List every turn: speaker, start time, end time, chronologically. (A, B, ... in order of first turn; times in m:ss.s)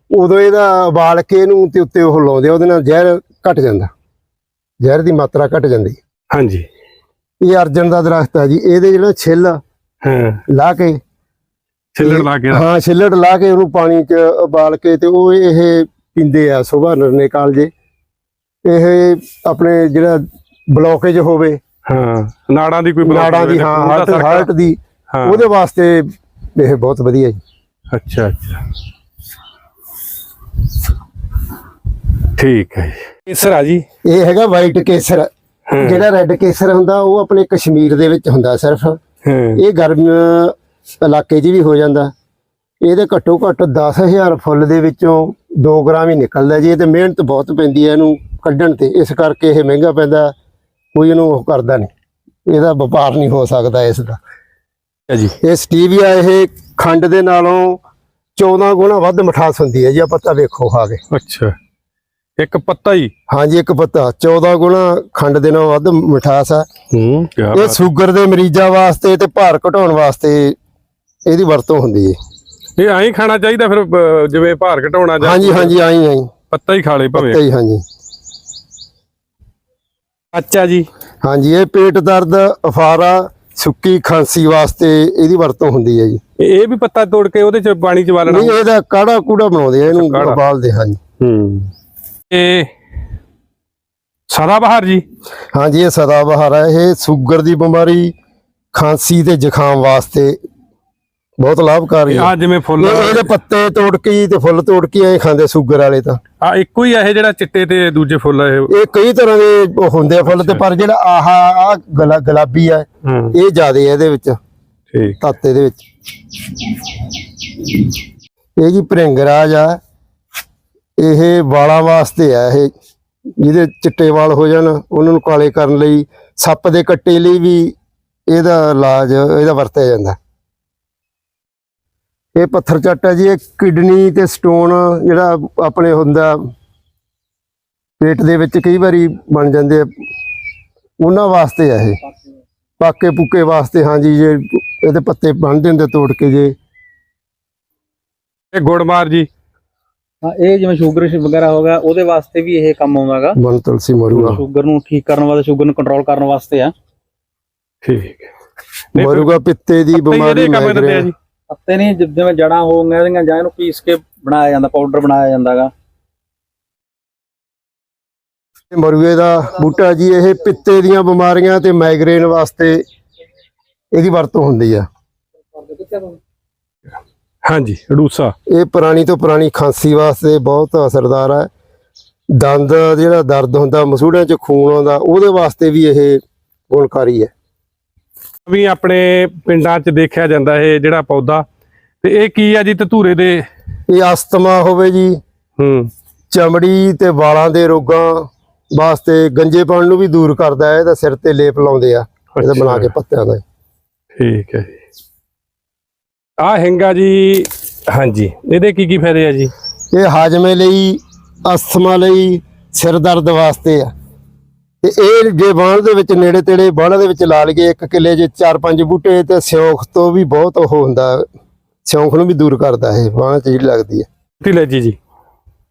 0:00.1-0:03.9 A
0:04.8-0:06.0 A
0:06.3-0:06.7 B
0:07.4-0:09.6 A
0:10.0-0:10.4 B
0:10.5-0:11.0 A
0:11.9-0:12.6 B
0:12.0-0:17.7 A
0:18.6-0:21.6 A
0:21.8-0:24.5 B
0:23.0-0:27.4 A
0:25.1-0:25.4 B
0:27.9-0:28.6 B
0:32.3-0:33.8 B
0:34.0-0:39.0 A
0:35.7-0:36.0 B
0:39.2-0:39.6 B
0:39.6-0:42.1 A
0:42.8-0:50.3 A
0:50.9-0:51.9 A
0:52.4-0:54.2 A
0:55.1-0:55.4 B
0:55.4-0:57.8 A
0:58.4-1:01.0 A
1:01.1-1:01.5 B
1:02.4-1:03.1 B
1:03.3-1:06.7 A
1:06.9-1:07.8 B
1:07.5-1:10.6 A
1:11.2-1:12.2 A
1:12.8-1:15.7 B
1:15.2-1:16.3 A
1:16.5-1:17.4 B
1:17.1-1:17.8 A
1:20.3-1:20.9 B
1:21.2-1:26.2 A
1:26.4-1:28.6 B
1:28.2-1:31.0 A
1:29.9-1:30.4 B
1:31.2-1:31.7 B
1:32.3-1:32.7 B
1:34.3-1:35.0 B
1:35.5-1:38.1 A
1:38.7-1:40.4 A
1:41.4-1:46.2 A
1:42.1-1:43.3 B
1:46.4-1:48.7 B
1:48.7-1:54.4 A
1:50.2-1:50.6 B
1:53.0-1:53.3 B
1:54.9-1:55.2 B
1:55.2-1:55.8 A
1:58.6-1:59.8 A
2:01.0-2:02.7 A
2:03.4-2:07.8 A
2:08.3-2:10.2 A
2:12.3-2:16.5 A
2:18.0-2:19.9 A
2:21.0-2:22.0 A
2:22.8-2:26.5 A
2:28.5-2:29.3 B
2:30.2-2:33.4 C
2:33.4-2:34.4 A
2:34.2-2:36.7 C
2:37.8-2:38.3 B
2:38.9-2:39.3 B
2:39.0-2:41.1 A
2:39.9-2:41.1 B
2:41.5-2:45.7 C
2:48.7-2:52.8 A
2:53.9-2:54.9 A
2:55.5-2:56.2 C
2:57.4-2:58.3 B
2:58.5-3:01.5 A
3:02.3-3:07.3 A
3:08.5-3:11.4 B
3:12.0-3:13.5 B
3:13.9-3:15.2 A
3:15.6-3:15.9 B
3:16.3-3:23.4 A
3:22.3-3:22.9 B
3:24.1-3:24.8 B
3:26.4-3:29.5 B
3:29.9-3:33.9 A
3:34.8-3:41.3 A
3:41.8-3:44.1 A
3:44.4-3:45.0 B